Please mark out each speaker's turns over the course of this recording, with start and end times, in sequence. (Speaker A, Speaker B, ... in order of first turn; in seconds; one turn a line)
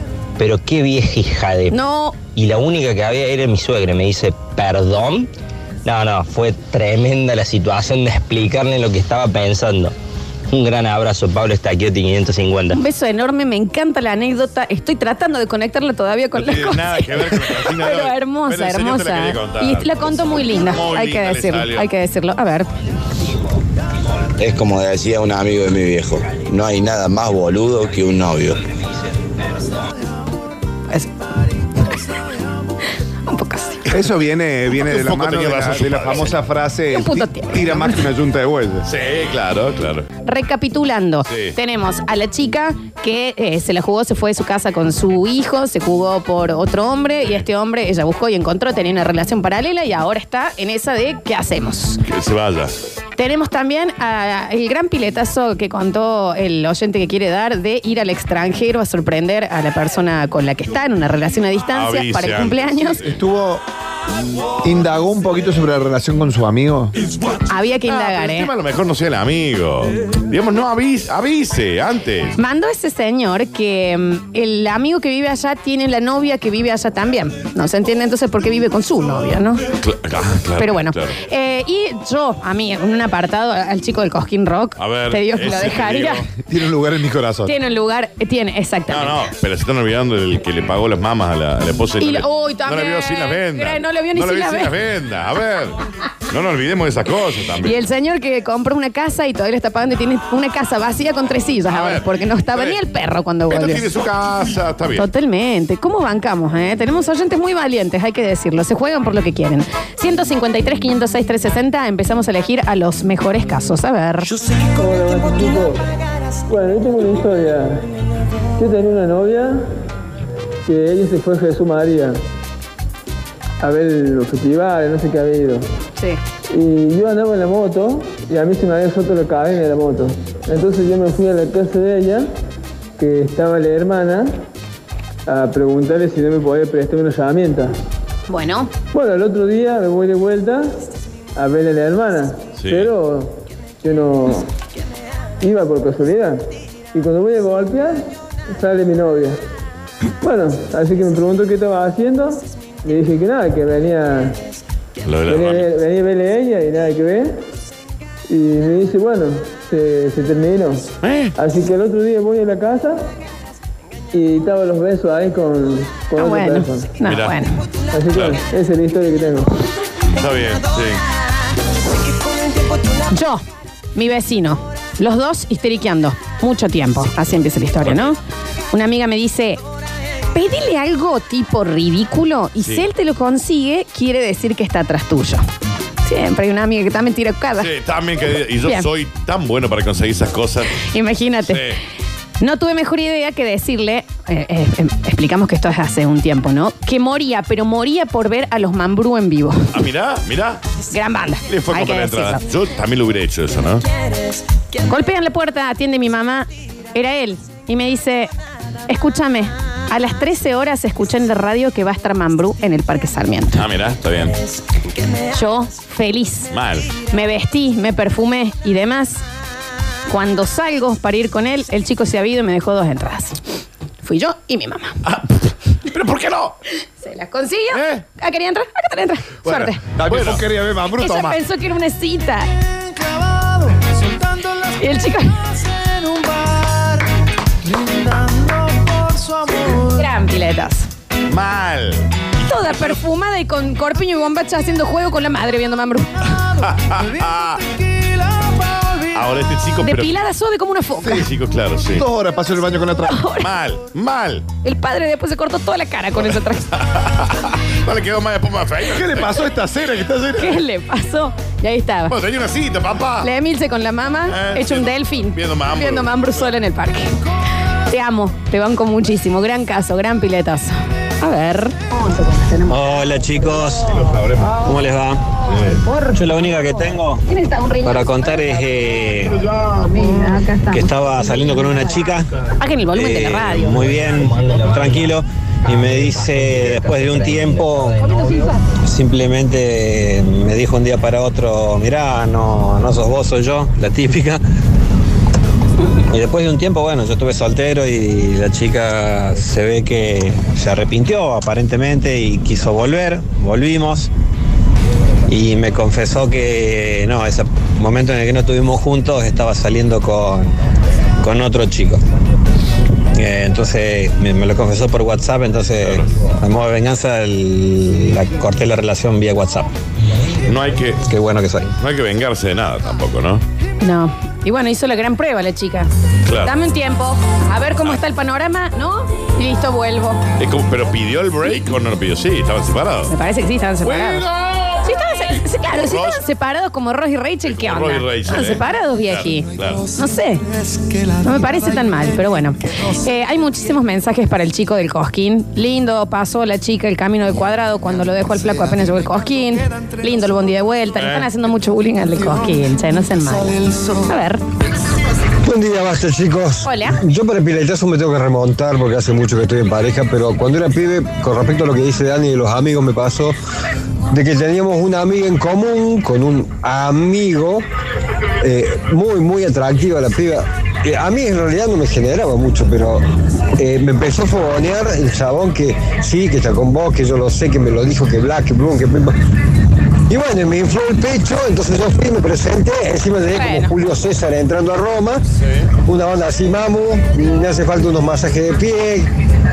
Speaker A: 0.4-5.3
Speaker B: 1.7-2.2
Speaker A: 5.8-9.9
Speaker A: 10.5-12.8
Speaker B: 12.7-22.7
Speaker C: 16.3-21.9
Speaker D: 24.4-28.6
Speaker B: 33.3-33.9
Speaker E: 33.9-38.9
Speaker C: 34.8-36.4
Speaker B: 36.9-38.0
Speaker C: 38.9-40.1
Speaker B: 40.2-52.0
Speaker C: 41.3-41.5
Speaker C: 52.0-52.8
Speaker B: 53.2-63.0
Speaker C: 61.7-63.1
Speaker E: 63.0-63.6
Speaker E: 64.6-66.9
Speaker B: 67.5-68.5
Speaker C: 67.8-72.3
Speaker B: 72.4-79.7
Speaker C: 79.8-81.2
Speaker B: 80.6-86.3
Speaker C: 84.8-86.3
Speaker E: 86.5-87.5
Speaker B: 87.5-89.3
Speaker C: 88.9-97.8
Speaker B: 92.0-94.7
Speaker B: 97.6-103.8
Speaker C: 101.7-102.8
Speaker C: 103.5-105.1
Speaker B: 105.0-114.3
Speaker F: 114.6-115.9
Speaker F: 116.5-117.8
Speaker F: 118.6-119.7
Speaker F: 120.7-122.2
Speaker F: 123.6-125.6
Speaker F: 126.5-132.3
Speaker F: 133.0-134.3
Speaker F: 135.3-137.8
Speaker B: 138.3-138.7
Speaker F: 138.9-140.7
Speaker F: 141.4-144.5
Speaker C: 142.6-142.9
Speaker F: 145.4-146.4
Speaker F: 146.9-149.4
Speaker F: 150.2-154.4
Speaker C: 155.0-155.7
Speaker F: 155.3-157.4
Speaker F: 158.3-163.0
Speaker C: 161.0-161.4
Speaker F: 164.1-166.9
Speaker B: 166.2-167.6
Speaker C: 167.0-167.4
Speaker F: 167.9-169.5
Speaker C: 168.1-168.4
Speaker C: 170.2-171.0
Speaker B: 173.1-173.4
Speaker B: 173.9-178.2
Speaker C: 177.8-178.1
Speaker B: 178.7-179.6
Speaker B: 180.3-185.4
Speaker B: 186.1-187.7
Speaker C: 187.6-190.8
Speaker B: 190.8-191.7
Speaker C: 191.5-191.8
Speaker B: 192.4-199.7
Speaker C: 199.7-200.6
Speaker B: 200.9-202.4
Speaker C: 201.5-203.8
Speaker B: 204.9-208.3
Speaker B: 208.9-213.6
Speaker C: 213.6-214.3
Speaker B: 215.3-216.5
Speaker C: 216.5-216.9
Speaker B: 217.1-219.2
Speaker B: 220.1-223.4
Speaker B: 224.0-225.0
Speaker C: 225.1-226.6
Speaker B: 227.0-229.8
Speaker C: 227.7-228.0
Speaker C: 229.4-230.4
Speaker E: 230.0-231.4
Speaker B: 231.0-232.5
Speaker B: 234.6-235.6
Speaker E: 239.1-239.6
Speaker B: 239.8-240.9
Speaker C: 241.3-242.1
Speaker B: 242.4-246.6
Speaker C: 246.6-247.6
Speaker C: 249.1-250.2
Speaker B: 249.8-251.3
Speaker C: 251.1-252.1
Speaker E: 251.9-253.2
Speaker B: 253.0-253.5
Speaker C: 253.4-254.4
Speaker B: 254.6-256.8
Speaker C: 256.7-259.5
Speaker E: 258.9-260.6
Speaker B: 260.4-262.1
Speaker C: 262.1-263.3
Speaker B: 263.2-267.1
Speaker C: 264.3-266.5
Speaker B: 267.9-272.6
Speaker G: 272.7-275.2
Speaker C: 273.9-274.6
Speaker C: 275.5-275.8
Speaker G: 276.1-277.2
Speaker B: 277.4-277.7
Speaker G: 277.8-279.4
Speaker C: 279.4-279.9
Speaker B: 280.1-280.6
Speaker G: 280.7-282.3
Speaker B: 282.6-283.9
Speaker G: 282.9-288.0
Speaker A: 284.0-285.0
Speaker A: 285.9-288.2
Speaker B: 288.1-288.5
Speaker G: 288.8-294.4
Speaker G: 296.1-304.1
Speaker G: 305.3-310.5
Speaker G: 311.2-312.0
Speaker G: 313.1-319.7
Speaker C: 320.5-321.0
Speaker G: 321.0-321.7
Speaker C: 321.8-323.4
Speaker B: 323.8-325.9
Speaker C: 326.3-326.5
Speaker B: 326.4-330.2
Speaker C: 330.4-333.1
Speaker B: 333.1-334.2
Speaker C: 333.8-334.9
Speaker B: 334.8-340.4
Speaker C: 335.7-336.2
Speaker C: 337.5-339.9
Speaker B: 341.2-354.4
Speaker C: 351.0-351.3
Speaker H: 355.4-363.4
Speaker B: 356.6-357.0
Speaker H: 364.1-367.6
Speaker H: 368.4-373.0
Speaker H: 373.6-379.2
Speaker H: 380.1-385.2
Speaker B: 383.3-383.7
Speaker H: 385.8-389.1